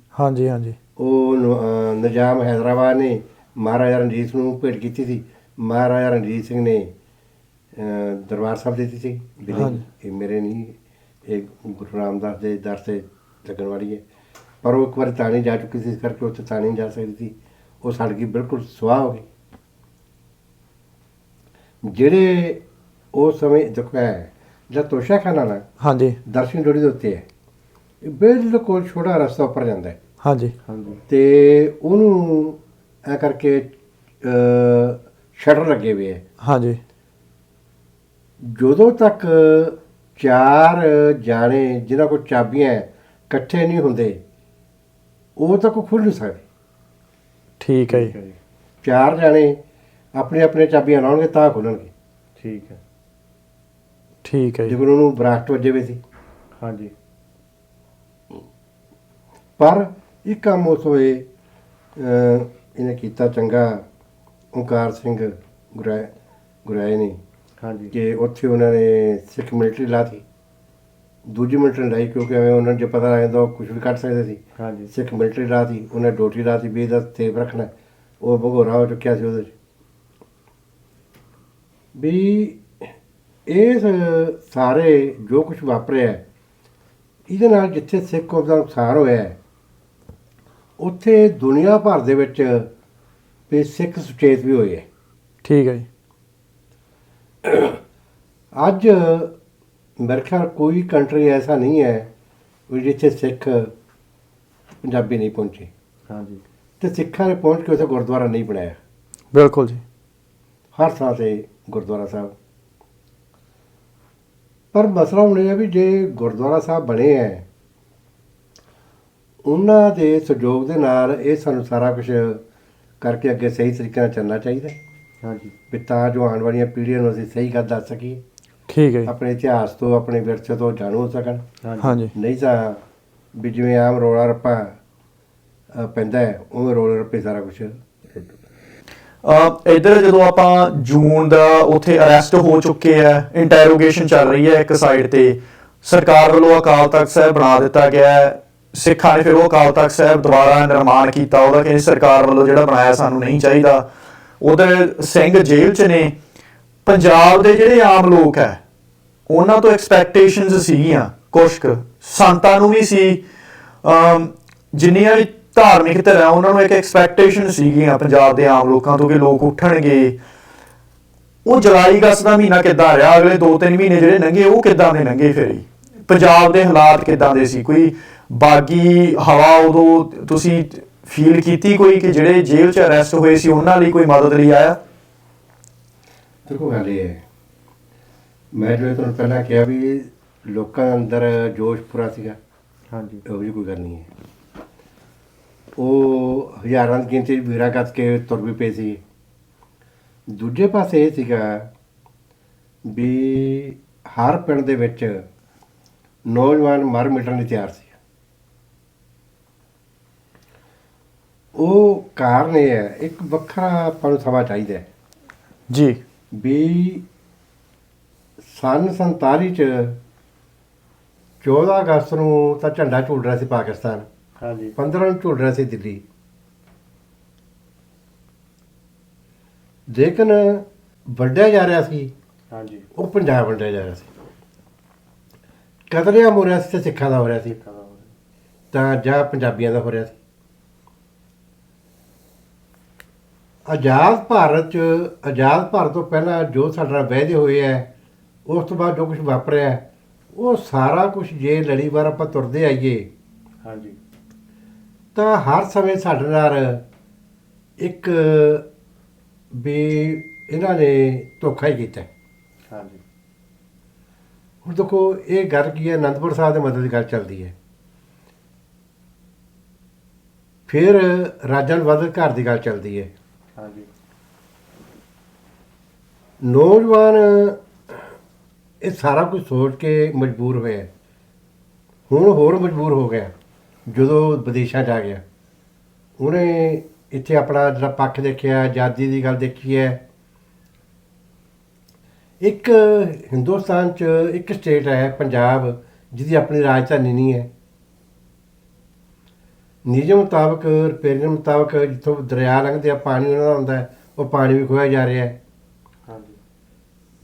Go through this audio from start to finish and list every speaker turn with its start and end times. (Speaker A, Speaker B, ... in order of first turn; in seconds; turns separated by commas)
Speaker A: 0.1-0.8, Speaker B: 1.0-6.9, Speaker B: 7.8-14.1, Speaker A: 9.5-9.8, Speaker B: 14.6-19.3, Speaker B: 21.8-22.6, Speaker B: 23.1-25.6, Speaker A: 25.8-26.2, Speaker B: 26.3-27.3, Speaker B: 28.0-30.0, Speaker A: 30.2-30.6, Speaker C: 30.6-31.0, Speaker B: 31.1-36.2, Speaker A: 36.4-36.8, Speaker B: 38.4-44.2, Speaker B: 45.4-46.4, Speaker A: 47.6-48.1, Speaker C: 47.9-48.4, Speaker B: 48.8-49.6, Speaker B: 50.1-51.9, Speaker C: 52.4-52.8, Speaker A: 54.2-54.8, Speaker B: 54.7-56.0, Speaker C: 56.6-56.9, Speaker B: 59.6-61.3, Speaker B: 62.0-63.9, Speaker B: 64.5-66.1, Speaker B: 66.7-67.2, Speaker C: 67.6-67.9, Speaker B: 67.9-70.2, Speaker B: 71.2-79.5, Speaker C: 74.6-74.9, Speaker B: 81.9-82.7, Speaker B: 83.5-86.2, Speaker B: 87.3-89.4, Speaker B: 90.8-92.7, Speaker B: 93.5-94.9, Speaker A: 95.4-95.9, Speaker B: 97.4-97.8, Speaker B: 98.5-99.3, Speaker B: 100.0-102.1, Speaker B: 102.7-103.7, Speaker B: 104.8-105.7, Speaker C: 106.1-106.4, Speaker B: 106.8-108.8, Speaker A: 109.3-109.8, Speaker B: 110.7-112.3, Speaker B: 114.7-117.5, Speaker B: 119.5-122.4, Speaker B: 123.0-124.8, Speaker C: 125.2-125.6, Speaker B: 125.7-128.2, Speaker A: 128.7-129.1, Speaker B: 129.1-131.4, Speaker C: 131.6-132.0, Speaker A: 131.8-132.1, Speaker B: 132.1-132.8, Speaker B: 133.3-134.8, Speaker B: 135.7-138.2, Speaker A: 139.2-153.9, Speaker A: 154.4-156.2, Speaker A: 156.9-158.6, Speaker A: 159.3-163.2, Speaker A: 163.8-170.2, Speaker A: 171.4-184.8, Speaker B: 186.5-187.2, Speaker B: 188.5-192.4, Speaker C: 192.9-193.2, Speaker B: 193.3-194.1, Speaker B: 195.8-199.0, Speaker B: 200.3-201.7, Speaker B: 202.8-205.3, Speaker B: 206.3-207.9, Speaker B: 211.6-214.9, Speaker A: 215.7-216.0, Speaker B: 216.3-217.1, Speaker B: 218.5-220.0, Speaker B: 221.4-224.1, Speaker C: 224.4-224.8, Speaker B: 224.8-226.0, Speaker B: 229.9-232.1, Speaker C: 232.5-232.9, Speaker B: 233.0-234.1, Speaker B: 235.9-237.6, Speaker C: 237.6-238.1, Speaker B: 238.7-240.1, Speaker B: 243.7-247.9, Speaker B: 248.5-253.1, Speaker C: 253.6-254.0, Speaker B: 255.2-256.8, Speaker B: 257.8-258.6, Speaker B: 259.5-262.1, Speaker C: 262.7-263.0, Speaker B: 264.6-267.5, Speaker B: 270.7-273.1, Speaker C: 273.6-273.9, Speaker B: 276.4-278.0, Speaker B: 278.8-280.9, Speaker B: 282.1-283.3, Speaker B: 283.9-285.2, Speaker B: 286.2-290.0, Speaker B: 292.4-297.5, Speaker B: 299.9-305.4, Speaker C: 306.1-306.4